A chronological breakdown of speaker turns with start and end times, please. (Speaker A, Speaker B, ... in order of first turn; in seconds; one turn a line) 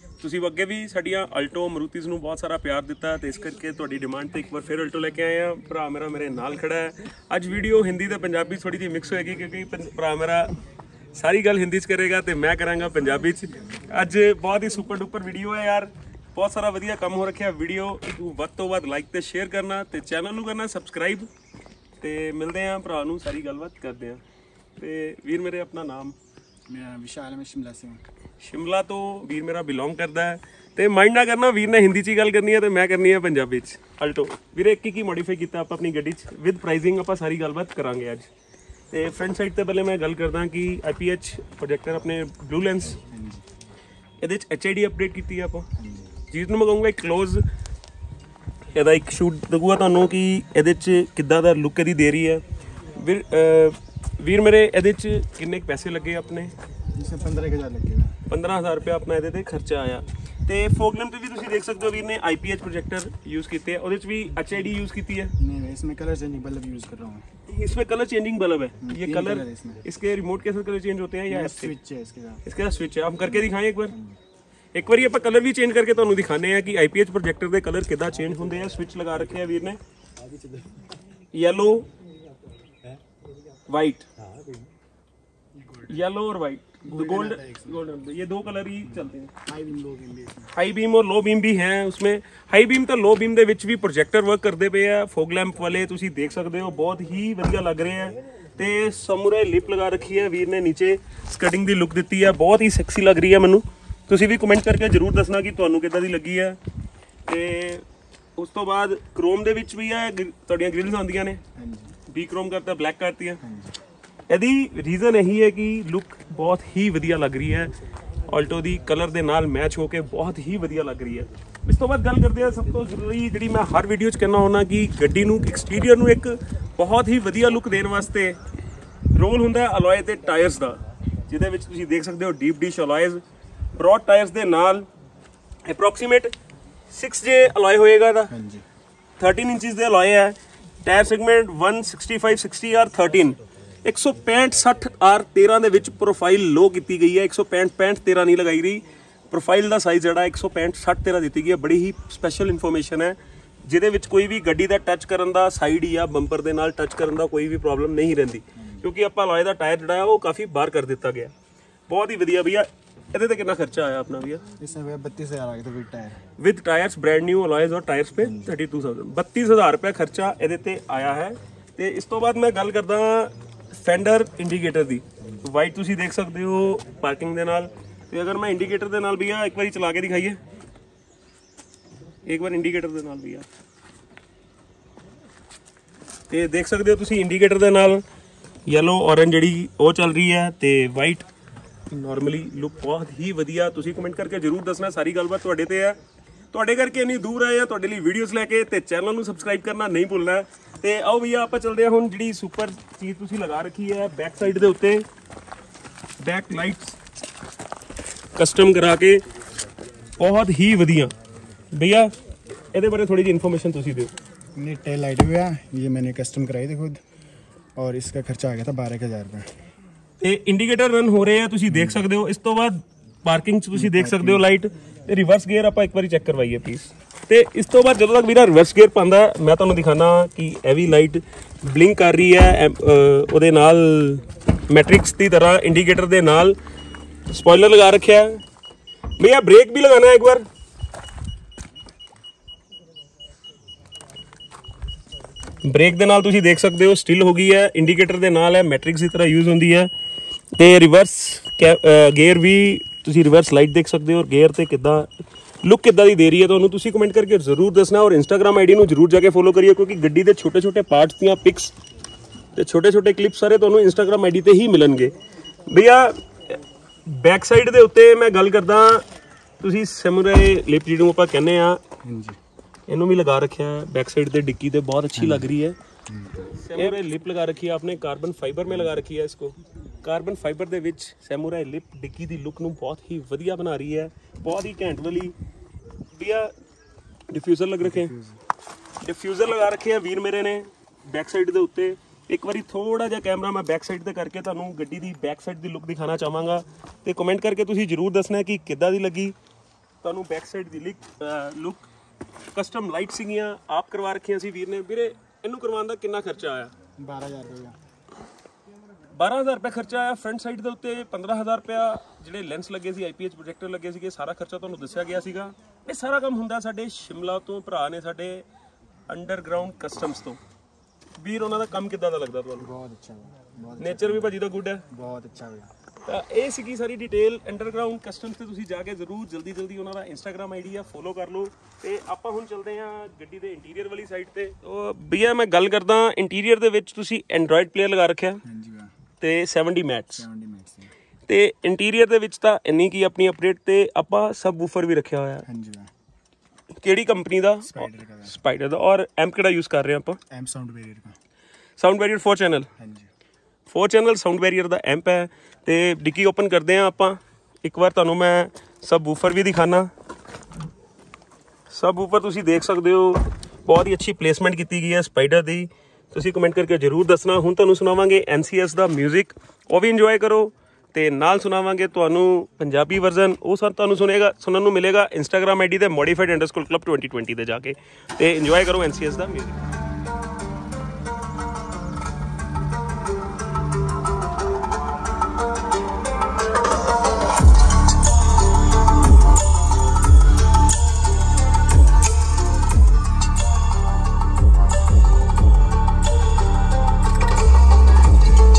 Speaker A: 0.2-10.5
Speaker A: 11.1-21.3
Speaker A: 22.0-24.2
Speaker A: 24.8-26.2
Speaker B: 26.7-28.0
Speaker A: 28.4-38.3
Speaker A: 38.9-43.0
Speaker B: 43.1-43.4
Speaker A: 44.2-45.7
Speaker B: 45.8-46.1
Speaker A: 46.3-47.4
Speaker A: 48.8-56.5
Speaker B: 57.0-58.1
Speaker A: 58.3-65.3
Speaker B: 65.4-67.2
Speaker A: 67.5-71.7
Speaker B: 68.8-69.8
Speaker B: 71.3-72.4
Speaker A: 72.5-73.9
Speaker B: 73.2-74.2
Speaker A: 74.7-79.8
Speaker A: 81.3-81.9
Speaker A: 83.7-84.1
Speaker A: 85.8-89.3
Speaker B: 86.8-87.8
Speaker B: 89.5-90.5
Speaker A: 90.5-106.6
Speaker A: 107.3-107.8
Speaker A: 108.4-111.4
Speaker B: 111.6-112.0
Speaker A: 112.1-113.4
Speaker B: 113.4-113.7
Speaker A: 114.3-117.7
Speaker A: 118.3-128.4
Speaker A: 129.1-133.2
Speaker A: 133.8-134.9
Speaker A: 135.7-136.3
Speaker A: 136.9-138.3
Speaker B: 138.3-138.6
Speaker A: 139.2-161.3
Speaker B: 158.6-158.9
Speaker A: 161.9-164.4
Speaker B: 164.6-166.2
Speaker A: 166.4-180.4
Speaker B: 168.2-168.5
Speaker A: 182.2-183.5
Speaker A: 186.3-188.0
Speaker A: 188.7-191.3
Speaker A: 191.9-196.0
Speaker A: 196.5-205.1
Speaker A: 206.2-207.0
Speaker A: 208.4-209.2
Speaker A: 210.2-211.1
Speaker A: 211.7-212.1
Speaker A: 212.7-214.1
Speaker B: 214.6-217.0
Speaker B: 217.8-219.5
Speaker A: 220.2-236.6
Speaker B: 221.7-222.0
Speaker B: 223.7-224.5
Speaker A: 237.3-238.4
Speaker A: 239.2-240.4
Speaker A: 245.6-249.9
Speaker A: 250.6-255.1
Speaker A: 255.6-261.8
Speaker A: 262.6-265.1
Speaker A: 265.7-269.0
Speaker A: 269.6-271.8
Speaker B: 272.0-272.4
Speaker A: 272.9-275.8
Speaker B: 275.2-275.5
Speaker B: 276.1-276.5
Speaker A: 276.6-285.4
Speaker A: 286.1-286.5
Speaker A: 287.3-288.1
Speaker B: 287.8-288.4
Speaker A: 289.0-299.4
Speaker A: 300.0-301.9
Speaker A: 302.6-306.7
Speaker B: 307.0-307.8
Speaker A: 309.1-318.5
Speaker A: 319.1-320.4
Speaker A: 321.2-322.7
Speaker B: 322.6-324.4
Speaker A: 323.8-324.8
Speaker B: 324.9-325.7
Speaker A: 326.0-338.4
Speaker B: 338.4-338.9
Speaker A: 339.2-340.3
Speaker B: 340.1-340.9
Speaker A: 341.3-345.5
Speaker B: 345.5-345.9
Speaker A: 346.8-350.2
Speaker B: 347.6-348.4
Speaker B: 350.3-351.1
Speaker A: 351.8-352.7
Speaker B: 352.8-353.1
Speaker A: 353.7-359.9
Speaker A: 361.7-379.7